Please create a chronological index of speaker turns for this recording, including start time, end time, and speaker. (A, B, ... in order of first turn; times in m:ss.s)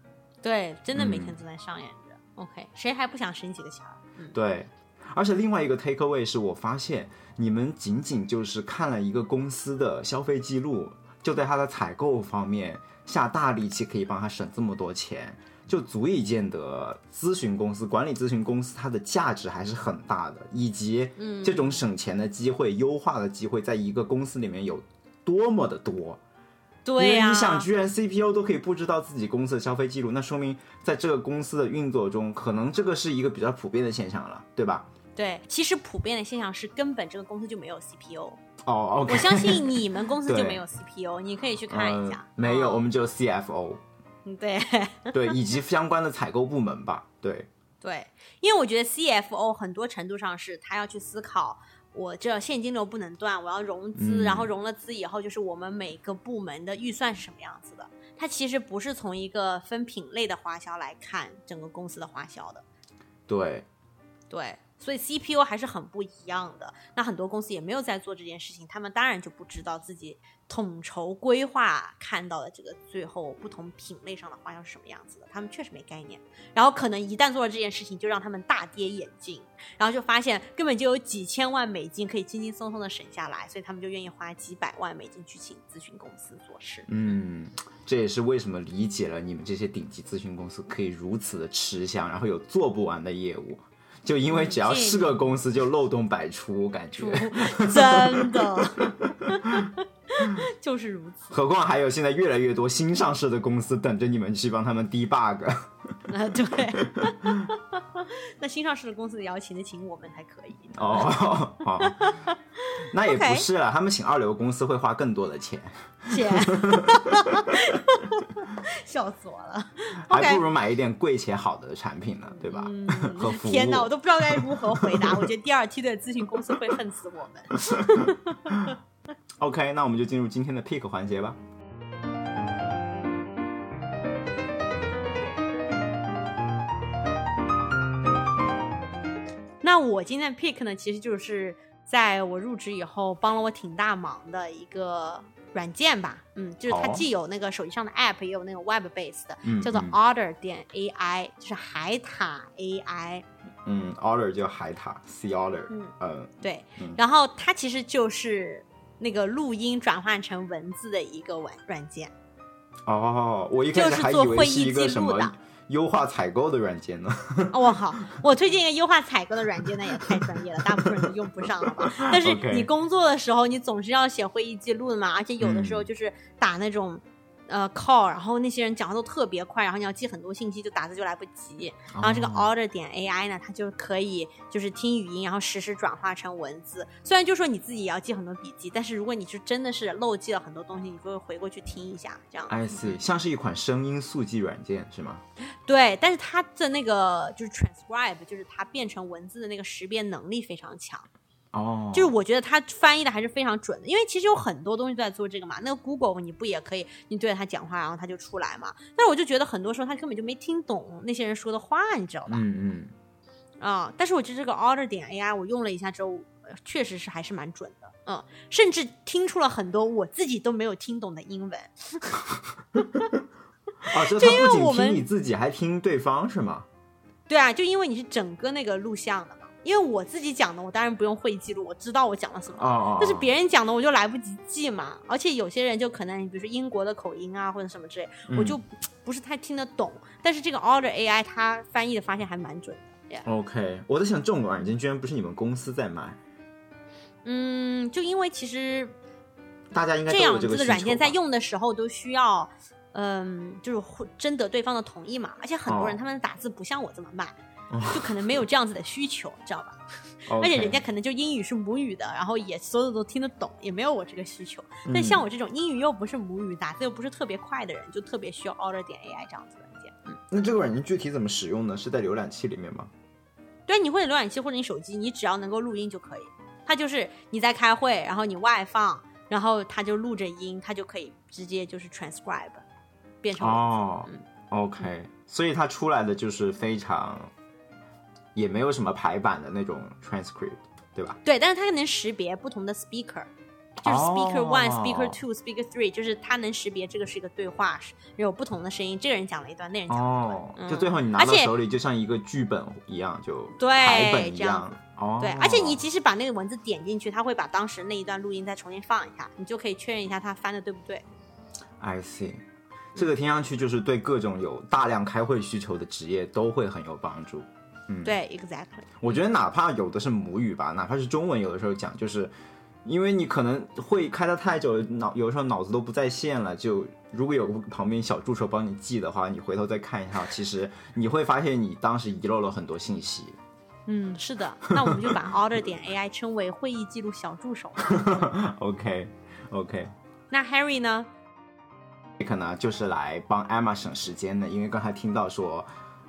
0:00.4-0:04.4 A
0:00.9-0:01.4 B
0:04.3-0:26.2 B
0:21.2-0:21.8 A
0:26.8-0:27.7 A
0:27.0-0:34.9 B
0:35.2-0:38.4 A
0:38.6-0:40.6 B
0:39.1-0:42.8 A
0:41.7-0:43.8 B
0:44.2-0:45.4 A
0:45.1-0:47.5 B
0:47.8-1:02.6 A
0:54.0-0:54.5 B
1:03.3-1:03.7 B
1:04.3-1:26.9 A
1:26.9-1:39.7 B
1:34.3-1:35.2 A
1:37.0-1:41.3 A
1:41.3-1:45.7 B
1:46.1-1:51.2 A
1:46.8-1:47.5 B
1:50.8-1:52.2 B
1:51.8-1:53.5 A
1:52.9-1:57.5 B
1:56.1-2:00.4 A
2:00.1-2:05.3 B
2:02.3-2:08.8 A
2:07.7-2:08.7 B
2:09.4-2:11.4 B
2:19.6-2:33.2 A
2:26.7-2:27.0 B
2:29.4-2:30.0 B
2:33.6-2:37.0 B
2:35.7-2:42.1 A
2:42.9-2:47.6 B
2:43.7-2:45.3 A
2:47.5-3:13.0 A
2:50.7-2:52.7 B
2:55.4-2:55.9 B
3:01.9-3:02.5 B
3:12.5-3:15.2 B
3:15.7-3:21.1 A
3:21.5-3:22.1 B
3:21.9-3:32.4 A
3:32.3-3:32.9 B
3:33.6-3:42.2 A
3:43.8-3:45.1 A
3:43.9-3:46.7 B
3:47.3-4:03.3 A
3:52.6-3:53.3 B
3:58.3-3:58.6 B
4:03.2-4:06.2 B
4:07.2-4:09.0 A
4:09.7-4:11.2 B
4:10.1-4:17.4 A
4:15.7-4:16.0 B
4:17.7-4:18.4 B
4:17.9-4:19.8 A
4:20.3-4:20.8 B
4:20.4-4:30.2 A
4:24.9-4:25.2 B
4:30.3-4:32.9 B
4:33.7-4:42.6 A
4:43.2-4:44.2 A
4:43.4-4:47.3 B
4:48.4-4:51.2 B
4:51.2-4:53.3 A
4:53.8-5:01.5 A
4:53.8-4:55.2 B
4:59.9-5:05.8 B
5:03.6-5:04.7 A
5:05.2-5:11.0 A
5:11.8-5:12.4 B
5:13.0-5:18.2 B
5:18.0-5:19.2 A
5:19.0-5:22.3 B
5:22.8-5:33.4 B
5:33.9-5:37.9 A
5:34.8-5:35.2 B
5:37.8-5:39.9 B
5:40.3-5:41.1 A
5:42.2-5:45.7 B